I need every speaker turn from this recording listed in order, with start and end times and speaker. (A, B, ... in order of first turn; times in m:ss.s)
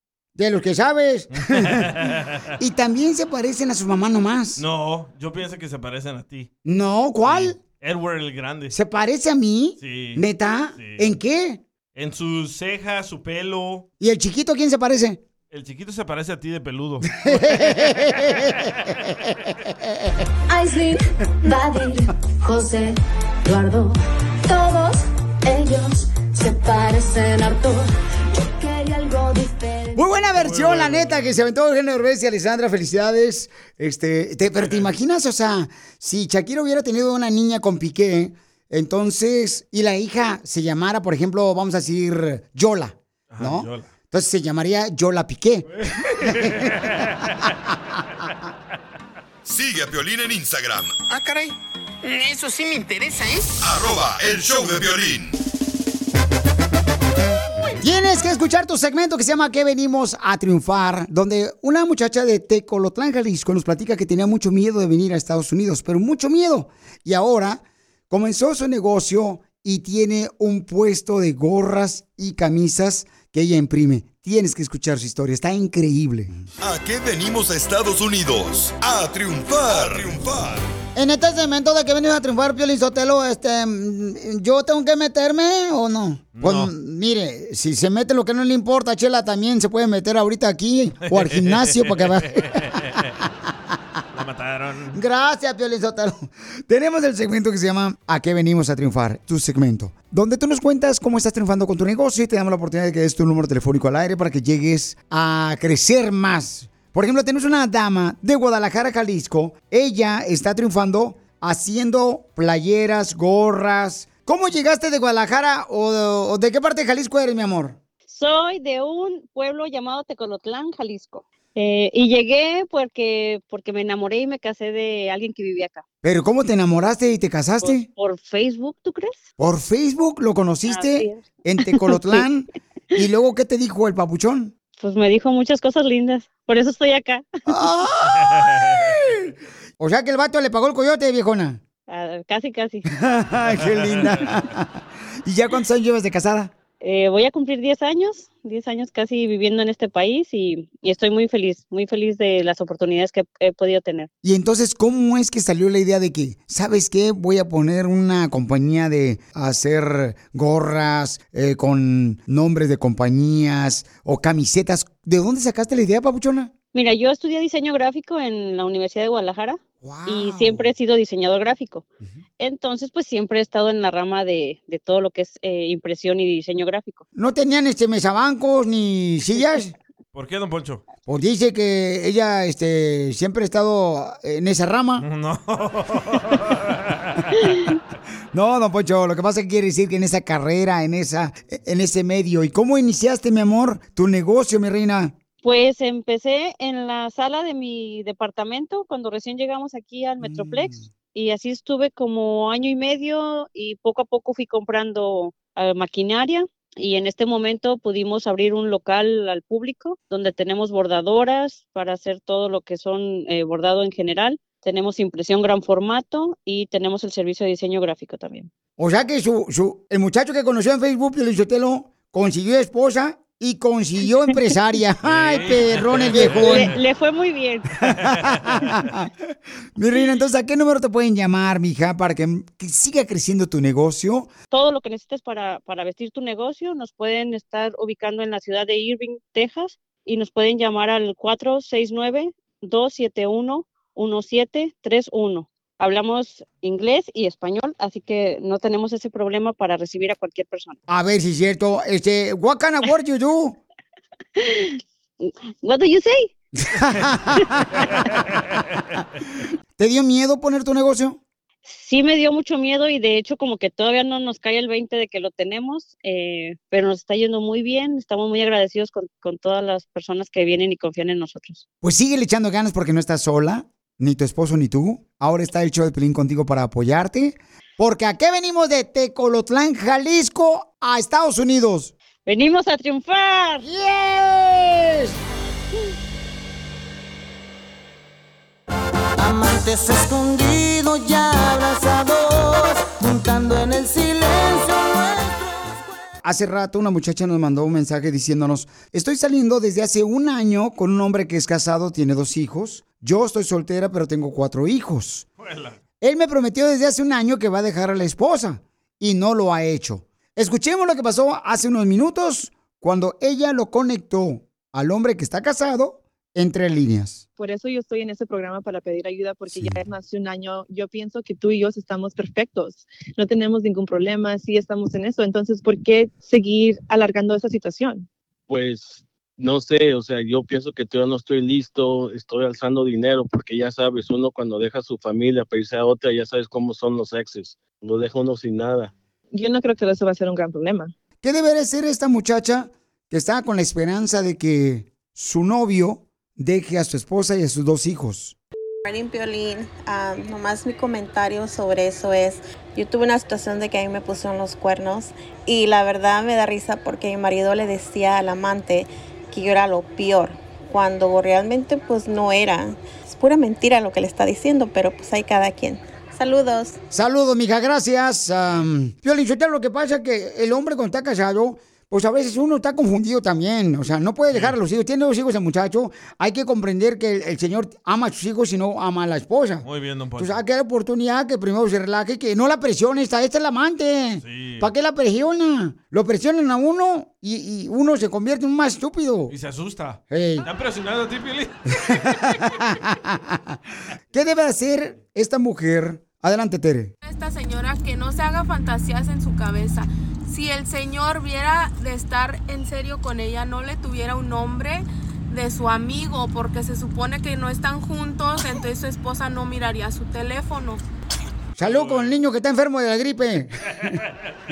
0:00.4-0:02.0 A
0:01.5-0:02.4 B
0:02.6-0:04.6 A
0:04.6-0:06.5 B
0:06.6-0:07.6 A
0:07.2-0:08.8 B
0:08.7-0:11.6 A
0:09.8-0:10.2 B
0:10.8-0:11.2 B
0:12.0-0:13.9 B
0:14.0-0:15.2 A
0:15.5-0:17.8 B
0:17.2-0:19.5 A
0:20.5-0:30.0 C
0:30.0-0:45.7 A
0:30.4-0:31.3 B
0:43.3-0:43.9 B
0:45.8-0:47.5 B
0:46.2-0:46.5 A
0:49.4-0:51.0 D
0:51.1-0:53.6 E
0:53.6-0:55.4 D
0:57.8-1:16.3 A
1:16.6-1:20.7 D
1:21.0-1:32.6 A
1:26.4-1:26.7 B
1:31.1-1:33.2 B
1:34.1-1:35.0 B
1:34.9-1:57.8 A
1:58.1-2:05.8 F
2:06.0-2:07.9 A
2:07.6-2:09.3 F
2:09.4-2:14.5 A
2:10.7-2:11.2 F
2:11.9-2:12.2 F
2:14.8-2:17.3 F
2:17.5-2:21.6 A
2:18.3-2:18.8 B
2:21.9-2:22.8 F
2:22.9-2:26.5 A
2:26.8-2:34.1 F
2:34.2-2:46.5 A
2:46.7-2:51.9 F
2:49.8-2:50.7 A
2:52.4-2:57.1 F
2:57.2-2:59.7 A
3:00.1-3:00.8 B
3:01.1-3:05.1 A
3:05.0-3:07.2 B
3:08.3-3:15.1 A
3:15.4-3:38.5 F
3:20.2-3:20.8 A
3:38.8-3:46.8 A
3:45.0-3:46.7 B
3:46.3-3:47.7 F
3:47.9-3:49.1 A
3:49.8-3:54.3 A
3:54.5-4:10.8 F
4:10.9-4:13.6 A
4:14.4-4:16.3 F
4:16.7-4:17.8 A
4:19.8-4:21.2 A
4:21.6-4:31.6 F
4:31.8-4:41.9 A
4:42.2-4:43.7 F
4:43.6-4:45.2 A
4:49.2-4:54.7 G
4:56.2-5:05.3 A
5:05.4-5:05.8 B
5:06.0-5:17.2 A
5:17.4-5:28.1 H
5:28.5-5:38.9 I
5:39.3-5:40.9 H
5:41.2-5:48.4 A
5:48.8-6:06.8 J
6:06.9-6:19.7 A
6:19.6-6:20.4 B
6:20.2-6:29.3 A
6:24.2-6:24.7 B
6:29.3-6:31.6 B
6:30.1-6:30.5 A
6:31.9-6:33.6 A
6:34.1-6:36.9 A
6:37.1-6:50.8 K
6:51.6-6:54.0 A
6:51.6-6:52.2 B